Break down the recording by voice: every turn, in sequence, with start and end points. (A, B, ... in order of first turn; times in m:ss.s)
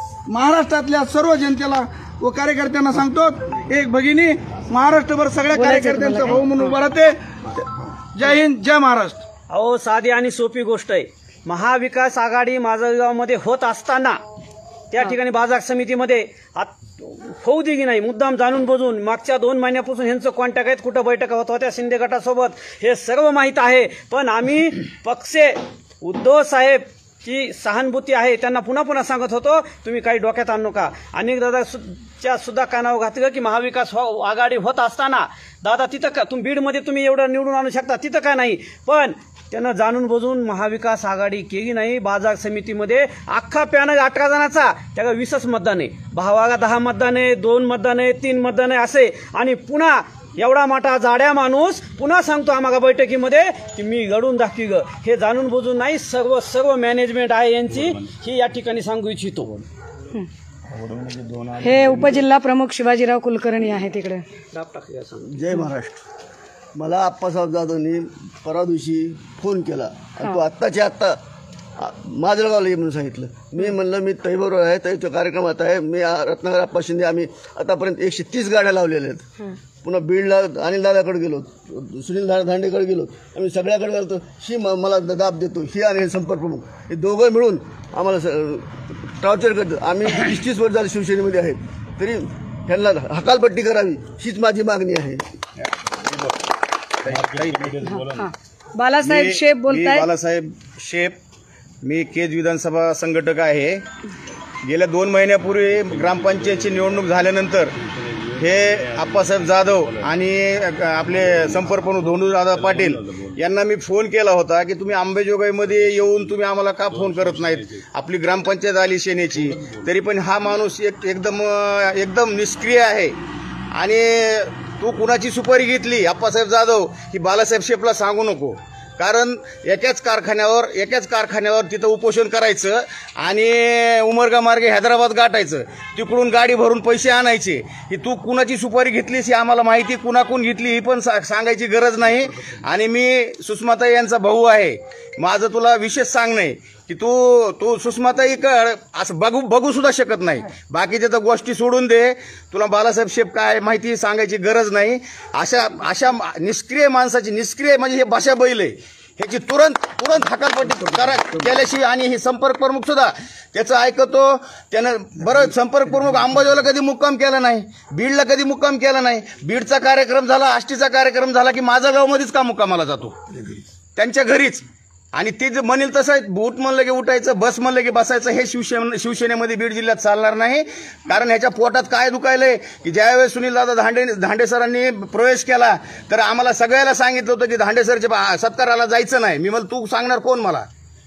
0:00.3-0:09.2 A
0:05.5-0:06.4 B
0:09.5-0:14.2 C
0:14.9-0:59.6 C
1:01.6-1:04.2 B
1:05.2-1:06.0 D
1:06.8-1:11.2 D
1:11.8-1:19.3 D
1:19.8-1:35.2 D
1:37.0-1:37.8 E
1:37.8-1:40.0 B
1:39.0-1:41.2 E
1:41.8-1:43.8 E
1:44.6-1:47.7 E
1:48.3-2:03.2 E
2:03.7-2:53.2 E
2:54.0-3:10.7 E